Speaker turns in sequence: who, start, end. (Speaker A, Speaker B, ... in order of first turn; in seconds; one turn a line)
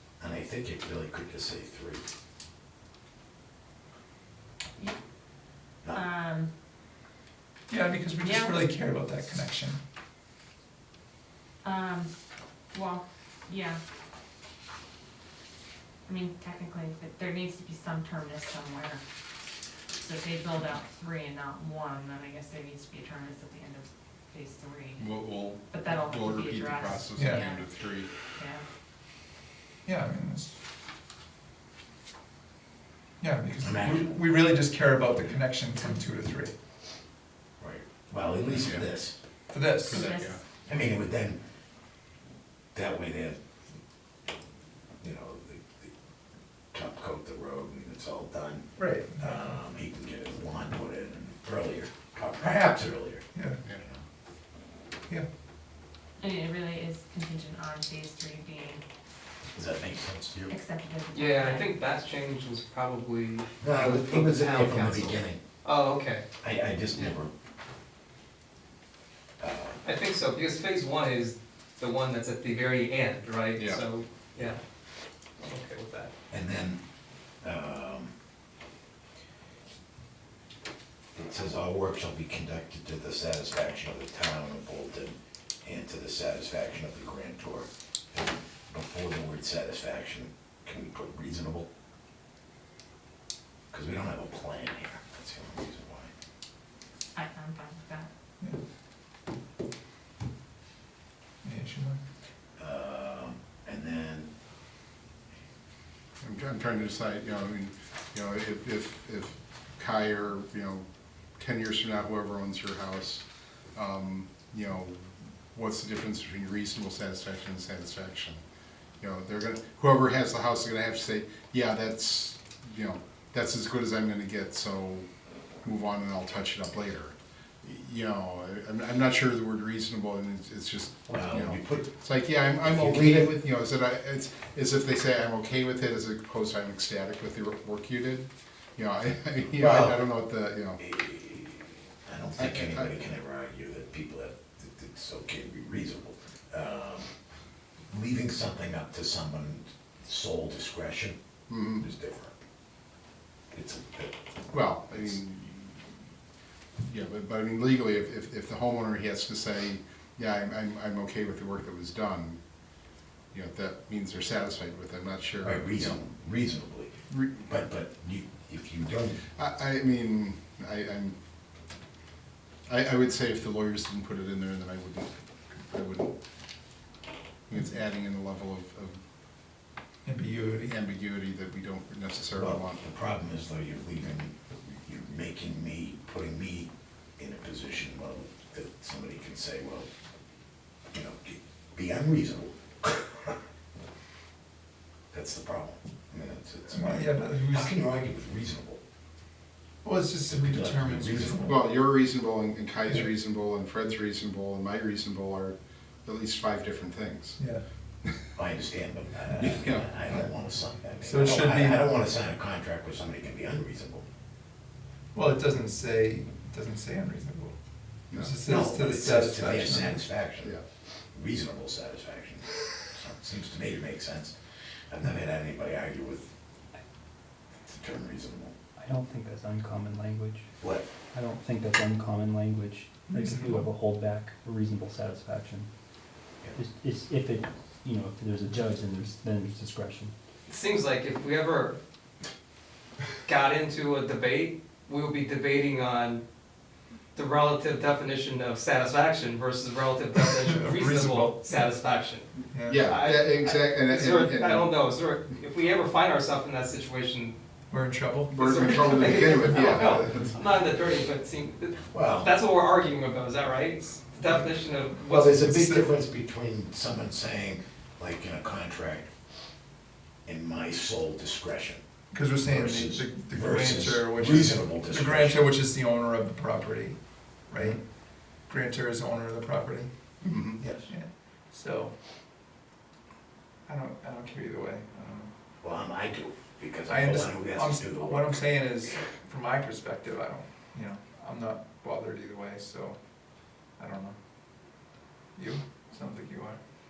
Speaker A: 0.2-2.0
Speaker B: 5.9-6.5
Speaker C: 7.7-9.8
Speaker B: 8.2-8.7
Speaker B: 11.6-12.1
Speaker B: 12.7-13.8
Speaker B: 16.1-19.0
Speaker B: 20.0-28.6
Speaker D: 25.0-28.1
Speaker C: 27.1-27.4
Speaker C: 29.9-30.5
Speaker C: 33.2-36.5
Speaker A: 33.6-34.1
Speaker A: 37.6-39.2
Speaker D: 38.5-38.8
Speaker C: 39.5-40.0
Speaker B: 39.8-40.4
Speaker D: 39.9-40.4
Speaker A: 40.6-41.4
Speaker A: 42.7-43.4
Speaker A: 45.0-45.9
Speaker A: 46.7-48.6
Speaker C: 48.8-49.6
Speaker A: 49.2-54.0
Speaker B: 56.2-58.8
Speaker A: 59.5-60.5
Speaker B: 60.5-61.8
Speaker E: 61.1-66.2
Speaker A: 63.6-65.4
Speaker A: 66.4-67.3
Speaker A: 69.4-69.8
Speaker E: 69.8-74.6
Speaker D: 73.5-73.8
Speaker E: 75.4-76.1
Speaker A: 76.3-76.8
Speaker A: 77.4-78.1
Speaker A: 81.2-91.7
Speaker A: 93.7-96.1
Speaker B: 97.1-98.1
Speaker C: 101.4-102.0
Speaker A: 102.6-104.3
Speaker D: 106.2-110.8
Speaker D: 111.4-118.4
Speaker D: 119.0-125.1
Speaker D: 125.6-140.8
Speaker A: 131.1-131.9
Speaker A: 132.6-133.3
Speaker A: 139.6-140.0
Speaker A: 140.8-147.1
Speaker D: 142.4-142.9
Speaker A: 147.9-151.2
Speaker D: 151.5-151.8
Speaker A: 151.8-152.3
Speaker A: 153.5-154.2
Speaker D: 154.5-155.9
Speaker D: 156.8-162.4
Speaker D: 163.3-166.0
Speaker A: 165.4-169.2
Speaker D: 167.1-167.5
Speaker D: 169.3-171.1
Speaker D: 172.7-175.1
Speaker D: 175.6-176.1
Speaker D: 177.5-179.0
Speaker C: 180.1-180.8
Speaker D: 180.7-182.8
Speaker A: 182.3-189.9
Speaker A: 190.9-193.3
Speaker A: 195.1-198.8
Speaker C: 196.7-197.8
Speaker C: 199.8-201.6
Speaker A: 200.2-201.5
Speaker D: 201.4-207.4
Speaker A: 208.3-214.0
Speaker D: 209.3-210.0
Speaker C: 211.0-211.8
Speaker C: 215.1-217.5
Speaker D: 218.1-218.3
Speaker C: 218.1-220.0
Speaker A: 218.4-220.5
Speaker A: 221.1-224.3
Speaker A: 224.9-226.3
Speaker A: 227.6-228.5
Speaker F: 228.8-235.7
Speaker A: 230.6-230.9
Speaker C: 233.1-233.6
Speaker F: 236.5-240.1
Speaker E: 240.5-241.8
Speaker E: 243.2-246.2
Speaker E: 247.1-252.3
Speaker C: 250.3-251.7
Speaker C: 252.5-252.9
Speaker D: 252.7-254.7
Speaker E: 252.8-257.4
Speaker C: 257.7-259.8
Speaker D: 258.3-260.4
Speaker E: 258.4-265.3
Speaker A: 261.9-262.3
Speaker A: 265.1-269.1
Speaker C: 265.2-265.9
Speaker A: 270.2-271.8
Speaker C: 272.1-277.0
Speaker A: 272.4-275.5
Speaker C: 277.5-277.8
Speaker C: 278.5-279.9
Speaker D: 280.2-280.6
Speaker C: 280.6-281.9
Speaker C: 283.7-285.3
Speaker A: 285.6-288.4
Speaker C: 286.9-293.0
Speaker C: 293.8-294.2
Speaker C: 295.4-296.6